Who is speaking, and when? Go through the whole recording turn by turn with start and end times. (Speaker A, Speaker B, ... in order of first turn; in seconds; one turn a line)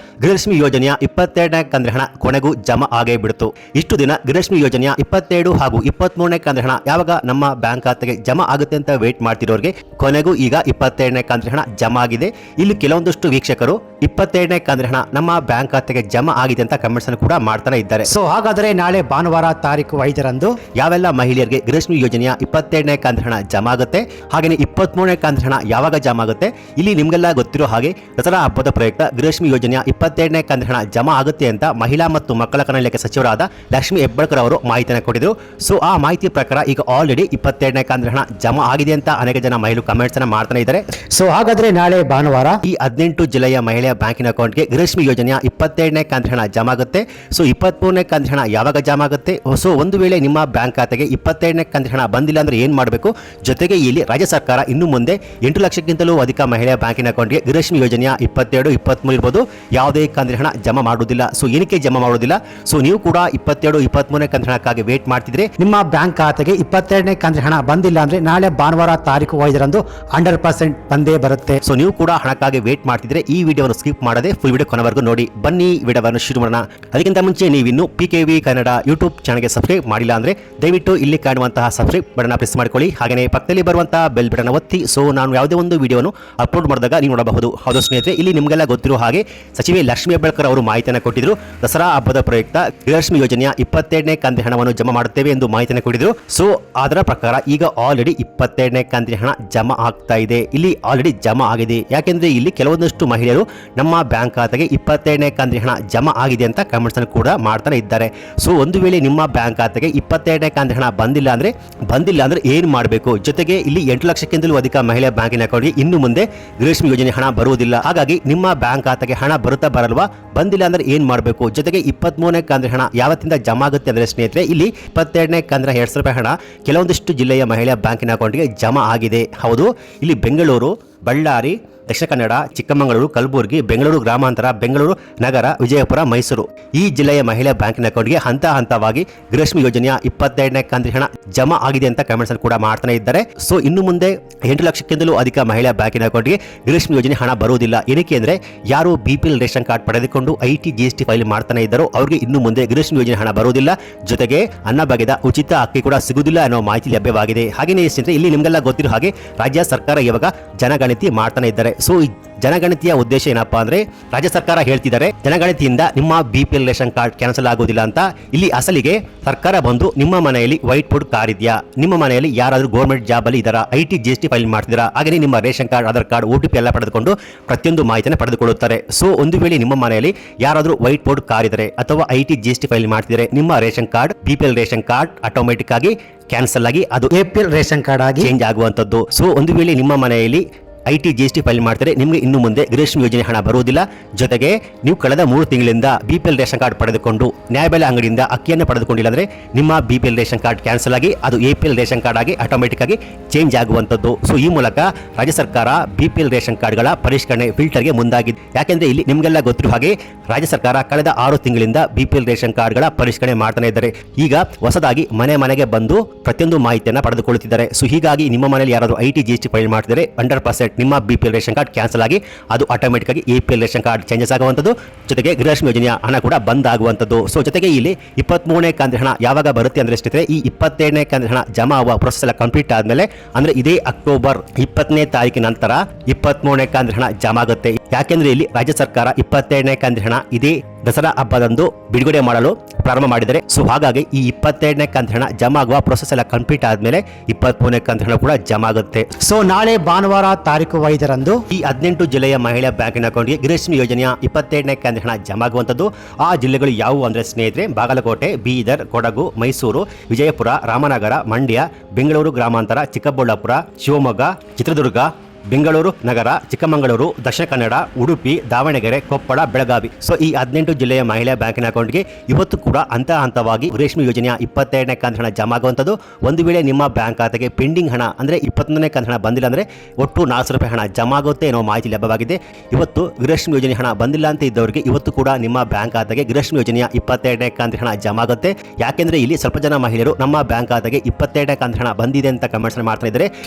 Speaker A: 0.2-18.1
Speaker B: 18.1-20.6
Speaker A: 20.8-40.9
Speaker B: 41.1-42.6
Speaker A: 42.6-65.5
Speaker B: 65.6-71.6
Speaker A: 71.6-187.1
Speaker B: 187.1-188.3
Speaker A: 188.2-249.1
Speaker B: 249.2-251.4
Speaker A: 251.5-293.3